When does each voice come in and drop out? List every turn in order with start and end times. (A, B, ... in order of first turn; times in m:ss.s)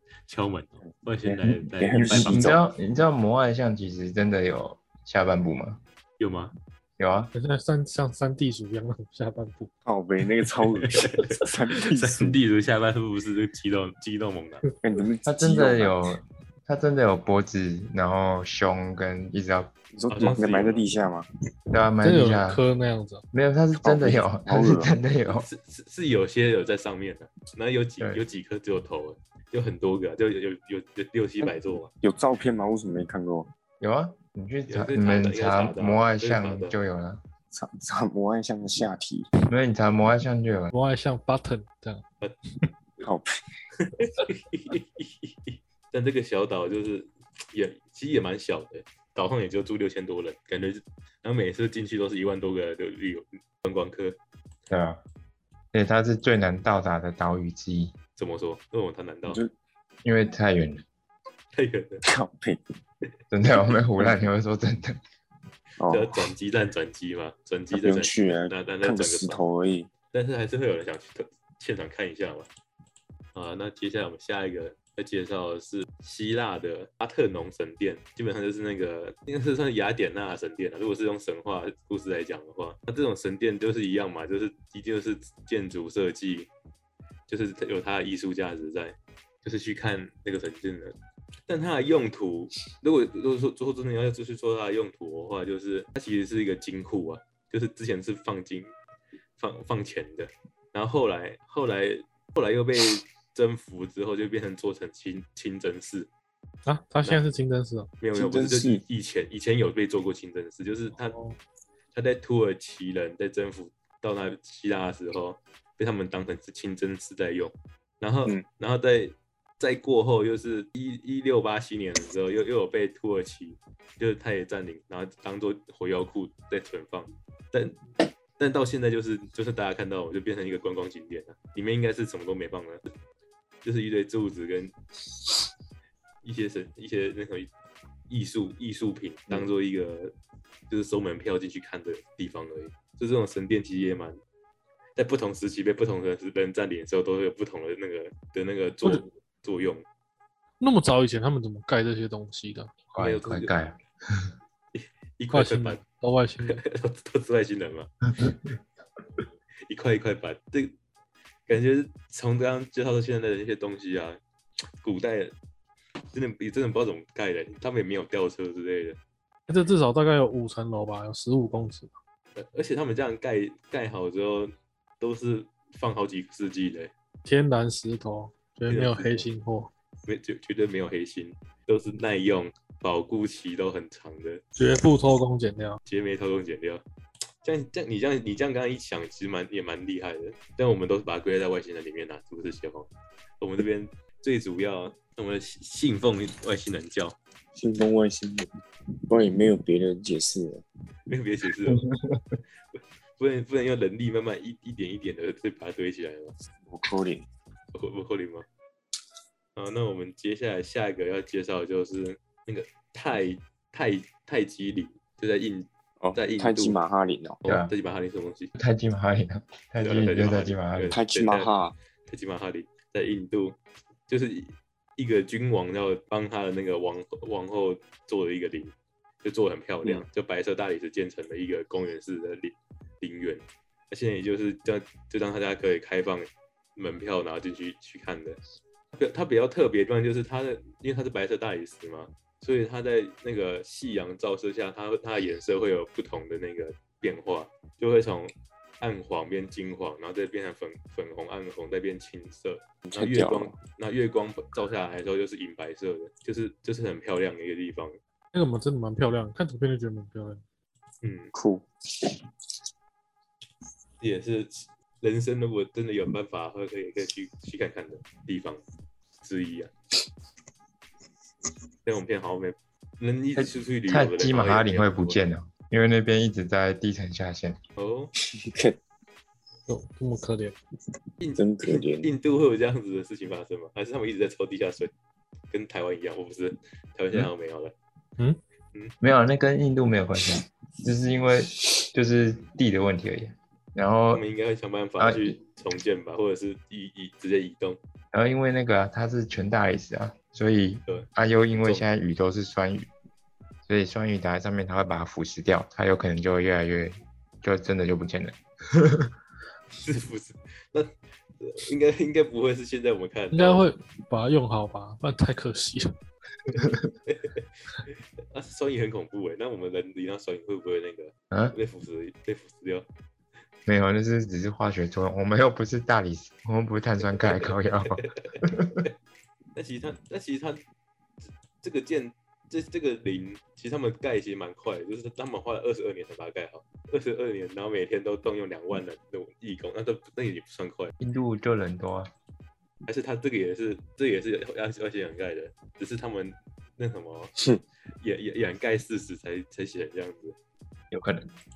0:00.3-0:02.6 A
0:01.2-0:02.6 B
0:02.0-0:05.8 C
0:06.2-0:06.5 A
0:07.0-0:07.3 C
0:07.3-0:09.7 D
0:09.8-0:12.4 B
0:10.8-0:14.6 A
0:14.8-0:16.0 B
0:15.2-0:19.7 C
0:19.9-0:21.3 B
0:20.1-0:20.8 A
0:21.7-0:22.6 C
0:22.0-0:23.2 D
0:23.3-0:25.5 C
0:23.8-0:24.9 B
0:25.3-0:31.9 A
0:31.4-0:33.5 B
0:33.8-0:37.2 C
0:34.7-0:36.8 A
0:37.5-0:39.3 B
0:39.5-0:40.7 C
0:40.7-0:42.0 D
0:43.0-0:43.3 B
0:43.8-0:54.2 A
0:54.7-0:55.0 C
0:55.7-0:57.9 C
0:58.2-0:59.4 A
0:59.2-0:59.5 B
1:00.0-1:00.8 C
1:01.5-1:02.0 A
1:02.0-1:02.6 B
1:03.3-1:05.0 C
1:05.8-1:06.3 B
1:05.9-1:09.4 A
1:07.7-1:09.9 B
1:10.1-1:12.5 A
1:13.3-1:26.5 A
1:27.3-1:31.0 A
1:31.5-1:38.7 A
1:39.4-1:46.1 A
1:46.6-1:47.9 D
1:48.0-1:51.2 A
1:48.1-1:48.8 B
1:51.1-1:51.4 D
1:51.9-2:07.8 A
2:08.4-2:12.8 A
2:13.6-2:14.7 A
2:16.2-2:17.5 A
2:18.1-2:20.1 A
2:20.7-2:24.2 A
2:25.0-2:29.8 A
2:30.6-2:32.7 D
2:32.9-2:34.3 C
2:33.0-2:33.5 A
2:34.7-2:35.8 A
2:35.3-2:36.6 D
2:36.4-2:37.9 A
2:39.7-2:40.7 A
2:41.5-2:44.2 A
2:44.8-2:45.3 A
2:46.1-2:49.0 A
2:49.5-2:51.9 D
2:52.4-2:56.9 A
2:57.2-2:59.7 D
2:58.7-2:59.2 A
3:00.0-3:04.4 A
3:04.6-3:05.8 D
3:05.8-3:06.8 A
3:07.4-3:12.9 A
3:13.4-3:17.2 A
3:17.5-3:18.5 B
3:19.1-3:20.6 B
3:21.1-3:21.8 A
3:21.7-3:22.2 C
3:22.7-3:26.3 A
3:26.7-3:27.2 B
3:27.7-3:28.4 A
3:29.6-3:36.8 A
3:36.0-3:37.4 B
3:37.4-3:38.5 A
3:37.4-3:37.7 C
3:38.5-3:40.9 C
3:39.8-3:41.5 A
3:40.9-3:41.7 B
3:42.0-3:43.6 A
3:44.1-3:58.4 A
3:58.9-4:18.0 A
4:12.8-4:13.6 B
4:18.3-4:20.4 D
4:21.0-4:21.3 A
4:21.3-4:22.1 B
4:24.0-4:28.6 A
4:29.2-4:29.7 A
4:31.8-4:35.2 A
4:33.4-4:37.6 C
4:37.8-4:38.1 A
4:38.2-4:38.8 B
4:39.7-4:40.5 D
4:41.2-4:44.9 A
4:41.4-4:42.1 B
4:45.5-4:47.7 A
4:49.0-4:54.2 C
4:54.1-4:57.8 A
4:55.0-4:55.4 C
4:58.1-5:02.9 C
5:00.9-5:01.9 A
5:03.6-5:09.1 C
5:09.8-5:13.7 A
5:13.3-5:15.9 D
5:17.1-5:22.9 A
5:23.7-5:28.8 C
5:27.1-5:28.9 A
5:29.5-5:30.6 A
5:31.6-5:40.9 A
5:41.0-5:42.1 C
5:42.9-5:47.3 A
5:48.0-5:50.4 A
5:50.9-5:51.3 C